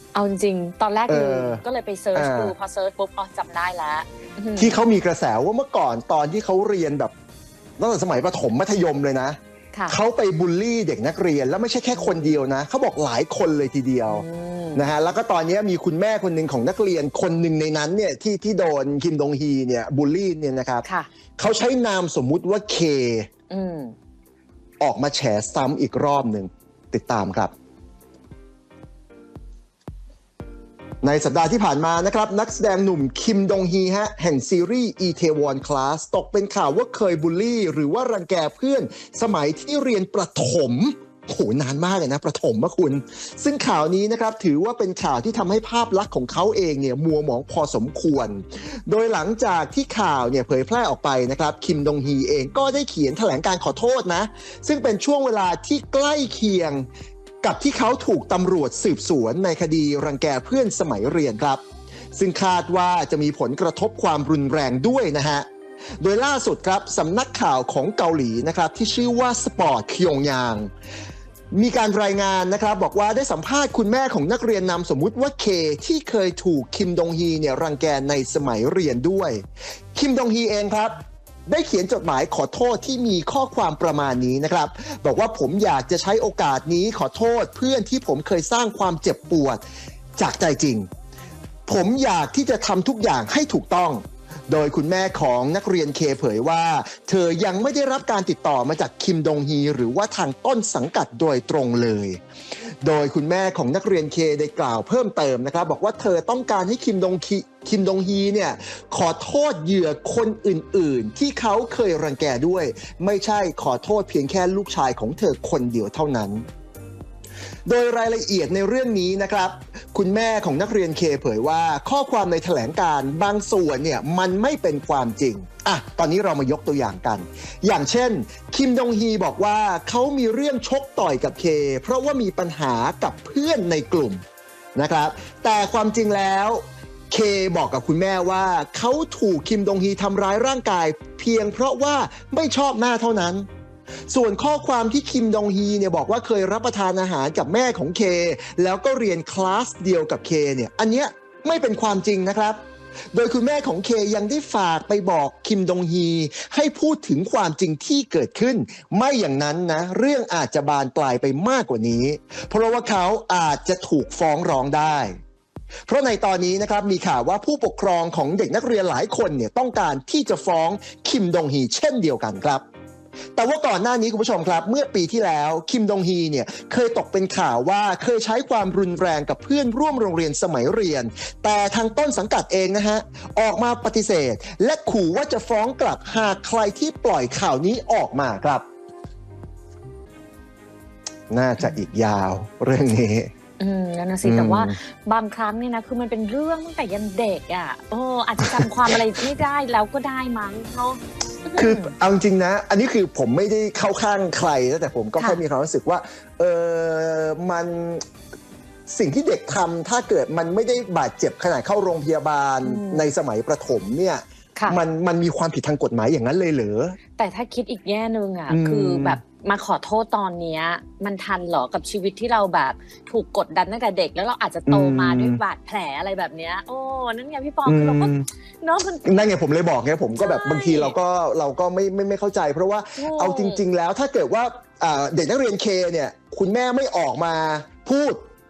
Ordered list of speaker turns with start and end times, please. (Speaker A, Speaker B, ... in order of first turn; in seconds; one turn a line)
Speaker A: 0.1-4.8
Speaker B: 1.1-1.6
Speaker B: 2.1-2.5
Speaker B: 4.6-7.1
Speaker B: 7.8-20.9
Speaker A: 11.9-12.3
Speaker A: 14.1-14.8
Speaker B: 21.4-23.3
Speaker A: 23.5-23.9
Speaker B: 24.8-27.5
Speaker B: 31.0-56.9
Speaker B: 57.4-61.6
Speaker B: 62.1-65.5
Speaker B: 66.0-70.7
Speaker B: 71.5-79.4
Speaker B: 79.9-89.6
Speaker B: 90.2-90.9
Speaker B: 91.7-102.2
Speaker B: 102.8-116.5
Speaker B: 117.7-134.2
Speaker B: 134.8-143.5
Speaker B: 144.1-152.6
Speaker B: 153.1-165.2
Speaker B: 165.9-172.6
Speaker B: 173.4-188.7
Speaker B: 191.3-193.3
Speaker A: 193.6-201.9
Speaker B: 194.2-194.7
Speaker B: 198.4-198.9
Speaker B: 201.6-208.1
Speaker B: 208.9-217.0
Speaker A: 212.6-213.1
Speaker A: 217.2-229.3
Speaker B: 218.5-219.2
Speaker B: 224.7-225.4
Speaker B: 227.7-228.3
Speaker B: 229.1-238.3
Speaker A: 230.2-230.9
Speaker A: 233.0-233.6